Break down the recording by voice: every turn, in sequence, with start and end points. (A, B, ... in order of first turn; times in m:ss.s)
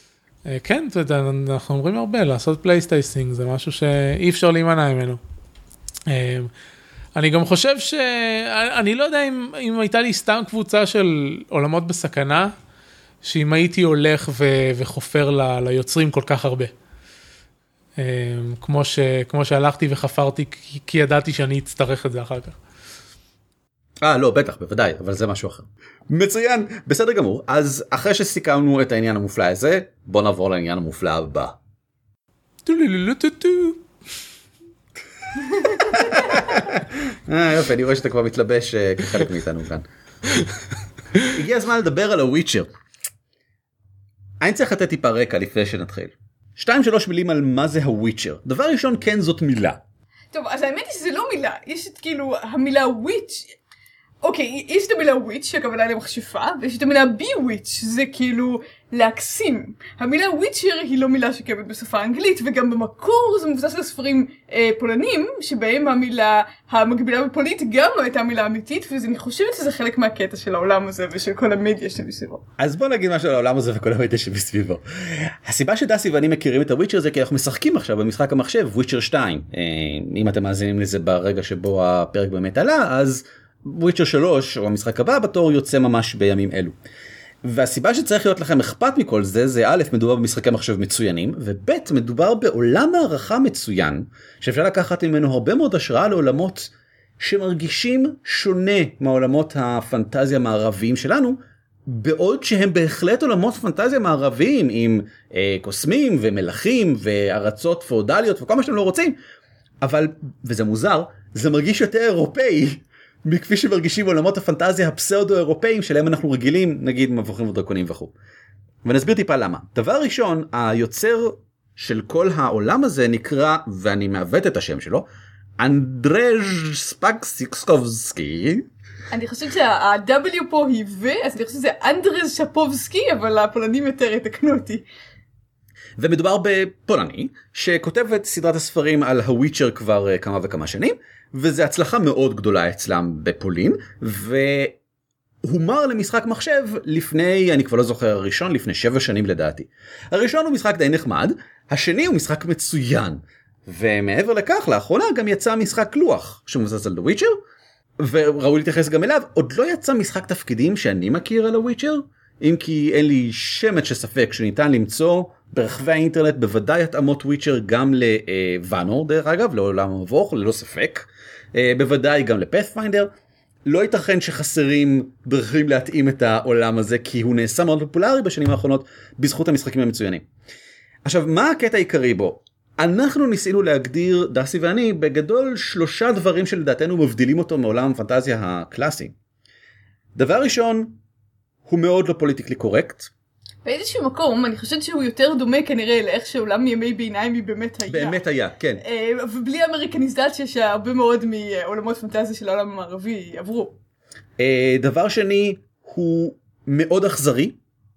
0:00.5-0:05.2 A
0:06.1-0:06.5 A
0:07.2-0:12.5 A
0:13.2-0:16.7 A
0:18.0-0:22.6 A
0:24.0-0:31.6 B
0:32.6-0:33.8 A
0:35.7-0:39.8 B
0:41.3-0:42.7 B
0:44.4-0:49.8 B
0:50.3-0:53.6 C
0:54.2-1:12.4 C
1:12.6-1:26.7 B
1:27.4-1:49.2 B
1:49.8-1:58.1 B
1:58.8-2:05.1 B
2:05.6-2:08.7 B
2:09.1-2:14.8 C
2:16.0-2:24.8 B
2:25.4-2:37.4 B
2:38.0-2:53.1 B
2:53.7-3:00.3 B
3:01.0-3:09.1 B
3:10.2-3:11.0 B
3:11.7-3:13.1 B
3:13.6-3:18.2 C
3:17.9-3:18.8 B
3:18.8-3:23.8 C
3:24.4-3:27.6 B